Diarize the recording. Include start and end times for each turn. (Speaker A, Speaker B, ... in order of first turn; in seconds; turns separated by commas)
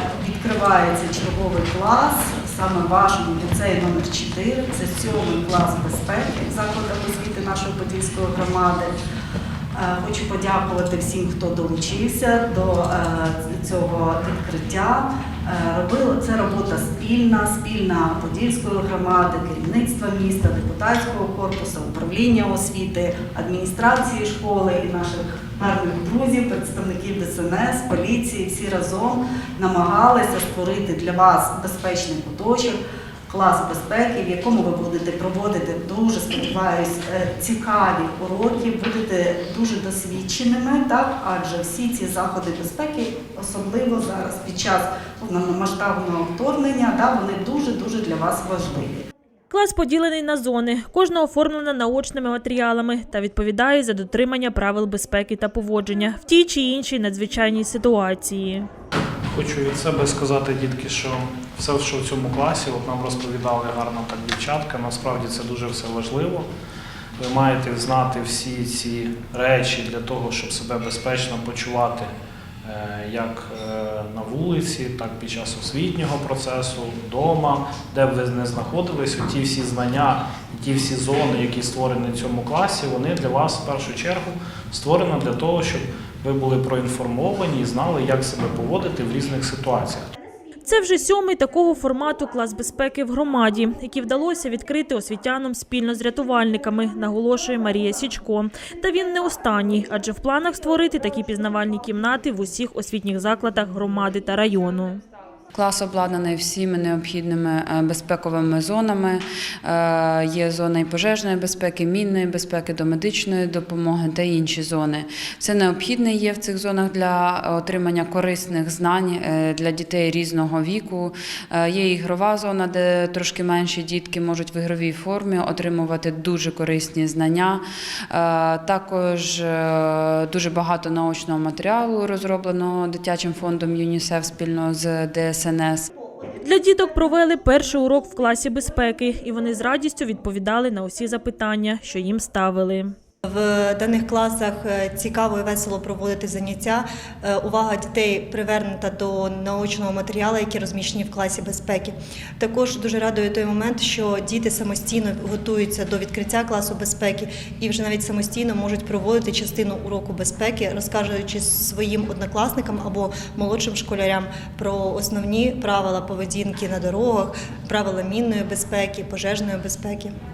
Speaker A: 0.2-8.9, Speaker A: 9.7-49.0, Speaker B: 49.5-58.7, Speaker C: 59.3-66.5, Speaker C: 67.2-72.1, Speaker C: 72.6-90.1, Speaker B: 90.6-105.0, Speaker D: 105.5-135.9, Speaker B: 136.4-142.9, Speaker E: 143.3-170.1